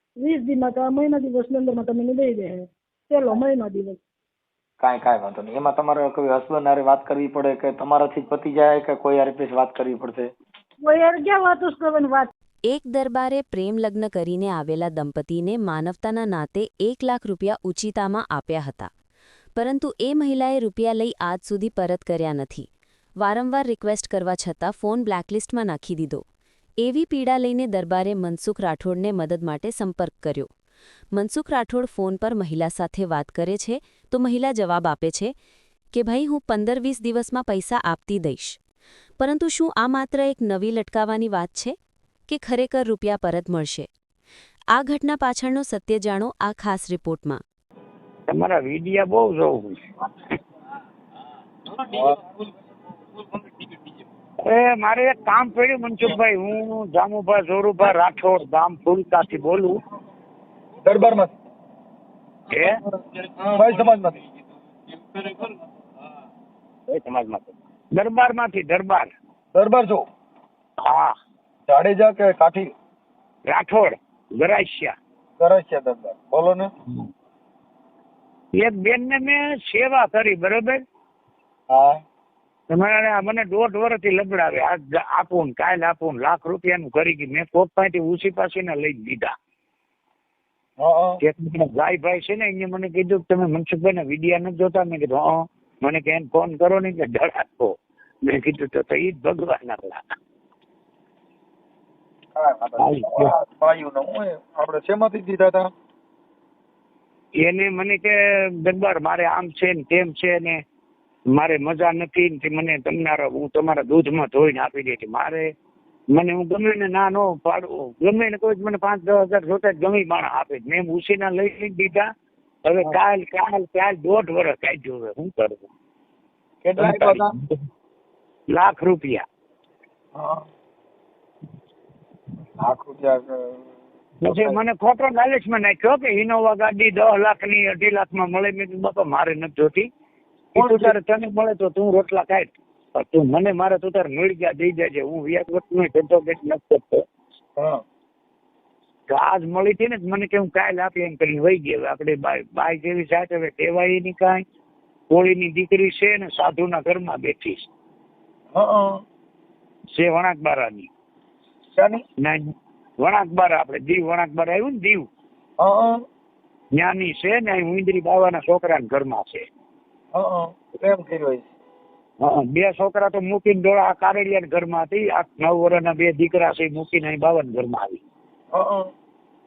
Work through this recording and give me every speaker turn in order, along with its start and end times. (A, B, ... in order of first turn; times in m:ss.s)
0:00.2-0:04.0 A
0:04.8-0:10.3 B
0:10.8-0:12.3 A
0:12.7-0:18.9 C
0:19.6-0:22.7 C
0:23.2-0:26.2 C
0:26.8-0:30.5 C
0:31.1-0:35.3 C
0:35.9-0:38.6 C
0:39.2-0:41.8 C
0:42.3-0:43.9 C
0:44.7-0:47.4 C
0:48.3-0:49.8 D
0:51.7-0:52.2 B
0:54.4-0:59.8 D
1:00.8-1:01.3 B
1:02.5-1:02.8 D
1:02.6-1:04.2 B
1:06.9-1:09.1 D
1:09.5-1:10.0 B
1:10.8-1:11.1 D
1:11.7-1:12.7 B
1:13.5-1:14.9 D
1:15.4-1:16.7 B
1:18.6-1:20.8 D
1:21.7-1:22.0 B
1:22.7-1:29.3 D
1:30.8-1:31.2 B
1:31.2-1:40.0 D
1:42.4-1:45.7 B
1:42.8-1:43.3 D
1:47.4-1:50.6 D
1:51.4-1:55.5 D
1:56.1-2:02.1 D
2:02.6-2:05.7 D
2:06.6-2:07.3 B
2:06.8-2:07.3 D
2:08.5-2:09.2 D
2:10.2-2:10.4 B
2:12.6-2:13.7 B
2:14.2-2:19.9 D
2:14.2-2:14.6 B
2:20.5-2:27.0 D
2:20.6-2:21.0 B
2:29.1-2:34.4 D
2:35.1-2:37.7 D
2:38.5-2:39.0 B
2:39.9-2:40.9 D
2:41.7-2:42.0 B
2:42.2-2:45.1 D
2:45.6-2:45.9 B
2:46.8-2:49.4 D
2:50.1-2:51.5 B
2:52.2-2:58.0 D
2:58.5-2:58.9 B